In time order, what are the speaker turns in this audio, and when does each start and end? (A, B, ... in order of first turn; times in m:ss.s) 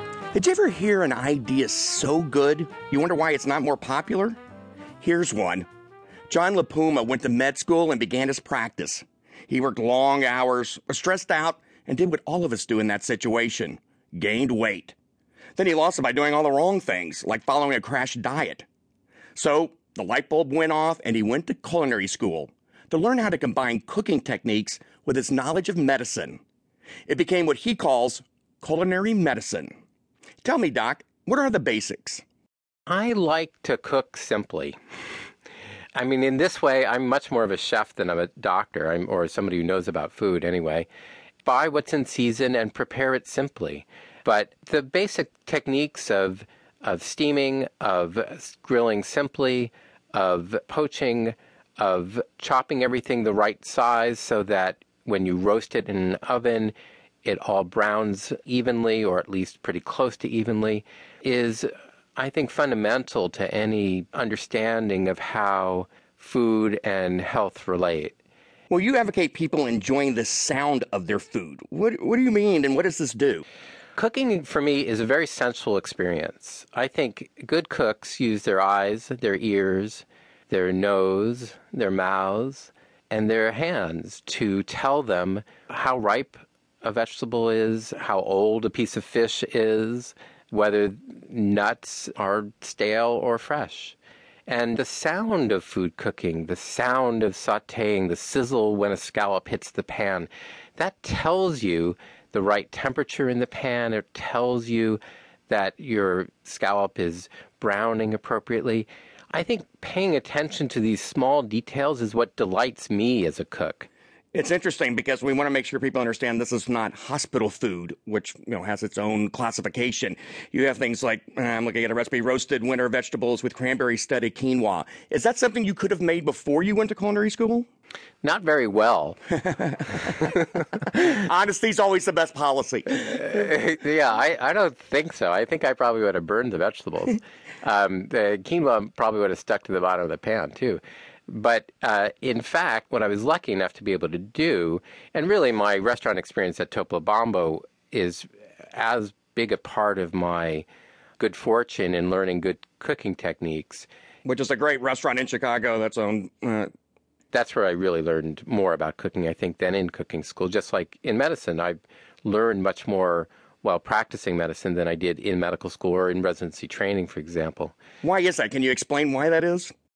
0:00.3-0:04.4 A
0:05.0-0:05.7 A
0:06.3-0:15.0 A
0:15.6-0:18.7 A
0:19.4-0:26.4 A
0:27.1-0:29.7 A
0:30.4-0:32.2 A
0:32.9-0:34.8 B
0:36.0-0:40.9 B
0:41.4-1:08.2 B
1:08.7-1:13.4 A
1:14.0-1:34.0 B
1:34.5-1:53.9 B
1:54.3-2:07.7 A
2:08.2-2:09.2 B
2:09.5-2:10.0 A
2:10.0-2:10.6 B
2:10.9-2:13.2 A
2:12.9-2:30.7 B
2:31.2-2:33.9 B
2:34.2-2:36.7 A
2:37.3-2:47.8 B
2:48.0-2:49.7 A